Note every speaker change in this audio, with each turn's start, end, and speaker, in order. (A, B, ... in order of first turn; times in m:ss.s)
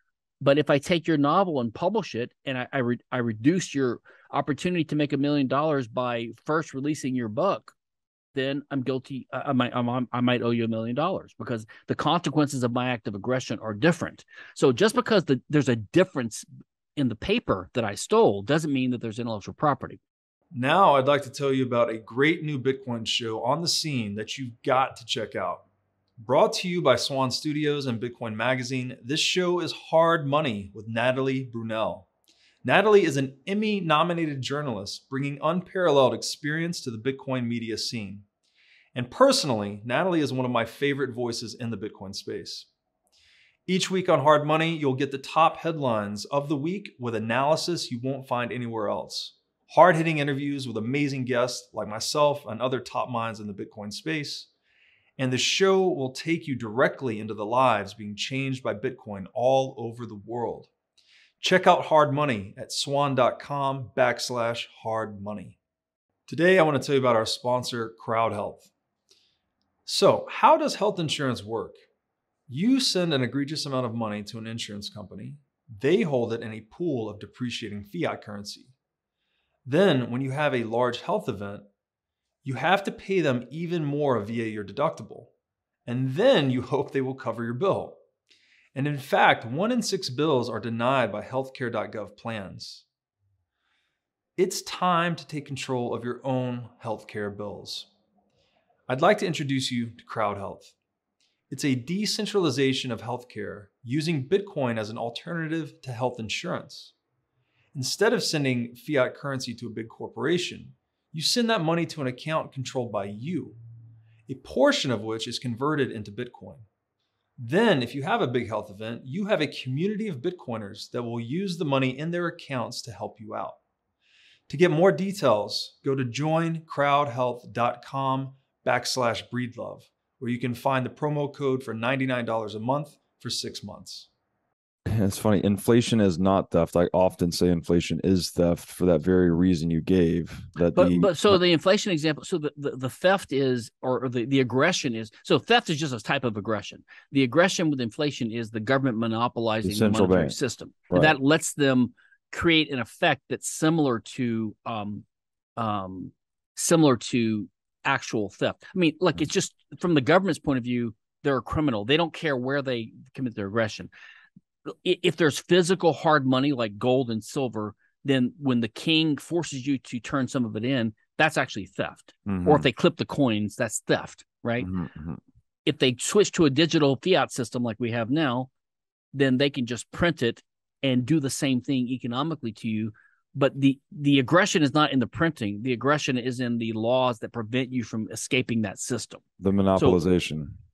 0:00.4-0:07.7 A
0:08.3-0:16.4 A
0:17.0-0:20.0 A
0:20.5-0:25.7 B
0:26.2-0:32.1 B
0:32.6-0:38.2 B
0:38.9-0:42.7 B
0:43.7-0:54.5 B
0:55.2-1:00.7 B
1:01.4-1:05.6 B
1:06.3-1:08.7 B
1:09.8-1:11.8 B
1:12.5-1:18.7 B
1:19.6-1:21.7 B
1:22.4-1:25.3 B
1:25.8-1:28.0 B
1:28.7-1:32.8 B
1:34.4-1:37.9 B
1:38.9-1:40.7 B
1:41.5-1:46.9 B
1:47.7-1:53.6 B
1:54.3-1:56.6 B
1:57.4-2:03.6 B
2:04.5-2:14.1 B
2:14.8-2:21.4 C
2:20.7-2:35.0 A
2:29.6-2:30.3 C
2:30.9-2:31.2 C
2:35.6-2:43.9 A
2:44.7-2:54.7 A
2:52.3-2:52.7 C
2:54.6-2:55.2 C
2:55.6-2:58.5 A
2:59.1-3:09.2 A
3:09.4-3:10.6 C